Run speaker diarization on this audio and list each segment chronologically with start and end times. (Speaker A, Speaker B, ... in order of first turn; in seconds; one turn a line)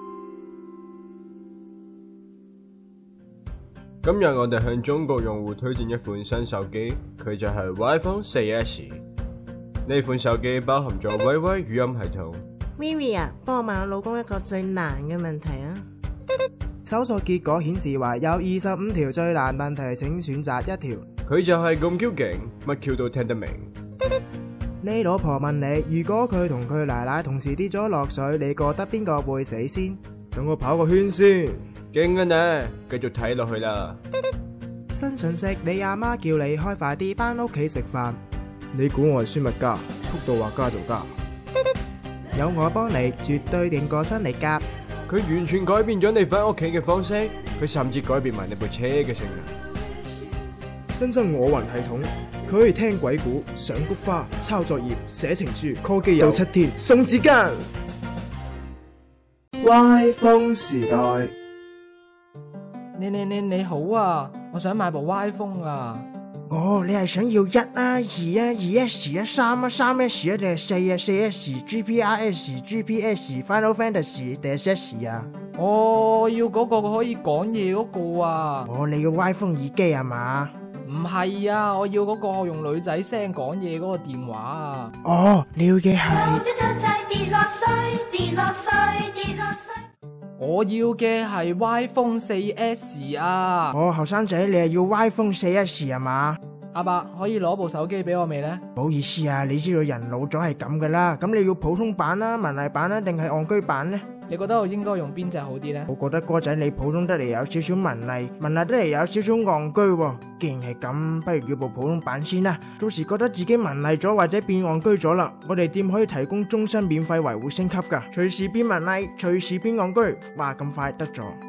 Speaker A: 4.0-9.0
Speaker A: 9.9-12.4
Speaker B: 12.8-15.8
Speaker C: 16.9-21.1
Speaker A: 21.3-23.7
Speaker C: 24.8-31.6
Speaker A: 31.9-34.0
Speaker C: 34.9-38.2
Speaker C: 38.7-41.1
Speaker C: 42.3-44.6
Speaker A: 45.1-49.5
Speaker C: 50.9-57.6
Speaker C: 59.6-61.3
Speaker D: 62.9-66.1
Speaker C: 66.5-75.3
Speaker D: 75.5-78.7
Speaker C: 78.7-80.5
Speaker D: 80.8-84.9
Speaker C: 85.0-86.6
Speaker E: 86.6-89.8
Speaker D: 90.4-93.8
Speaker C: 93.7-96.4
Speaker D: 96.7-98.6
Speaker C: 98.8-104.1
Speaker D: 104.3-105.9
Speaker C: 105.9-121.4